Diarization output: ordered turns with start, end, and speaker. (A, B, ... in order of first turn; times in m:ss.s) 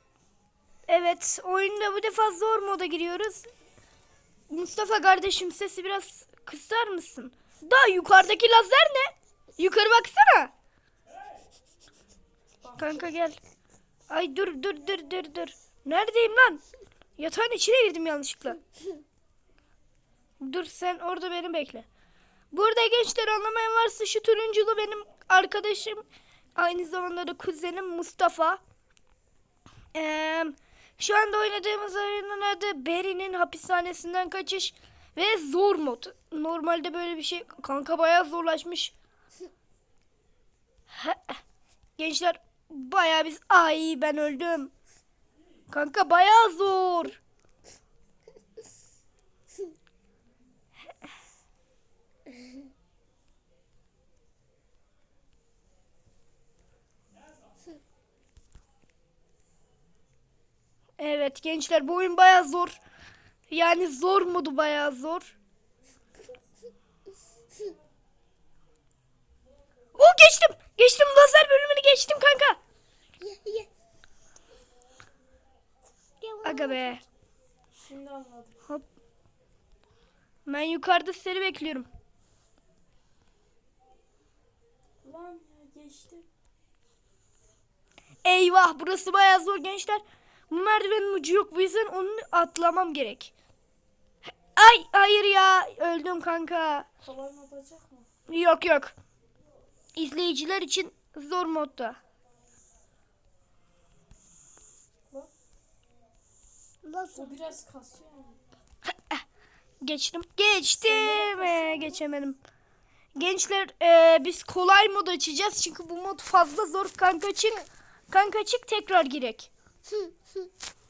0:00.9-0:03.5 A
0:04.5-0:10.5 A
0:12.6-0:13.1 B
0:12.8-0:13.4 A
0:14.1-0:16.6 A
0:17.2-0:18.6 A
0:20.4-0:21.8 A
0:22.5-0:28.6 A
0:29.9-0:38.9 A
0:40.9-0:41.4 A
0:42.0-0:44.7 A
0:45.7-0:47.2 A
1:01.0-1:02.8 A
1:03.5-1:05.3 A
1:09.9-1:12.6 A
1:13.2-1:13.7 C
1:16.2-1:17.0 C
1:16.4-1:17.0 A
1:17.8-1:18.6 B
1:20.4-1:21.9 A
1:25.0-1:26.2 B
1:28.2-1:33.3 A
1:34.5-1:36.9 A
1:37.0-1:38.1 B
1:38.3-1:38.9 A
1:39.9-1:42.0 A
1:46.9-1:47.3 C
1:47.1-1:48.4 B
1:48.8-1:49.2 A
1:49.8-1:52.4 A
1:50.8-1:52.0 B
1:53.2-1:59.5 A
1:59.9-2:00.5 C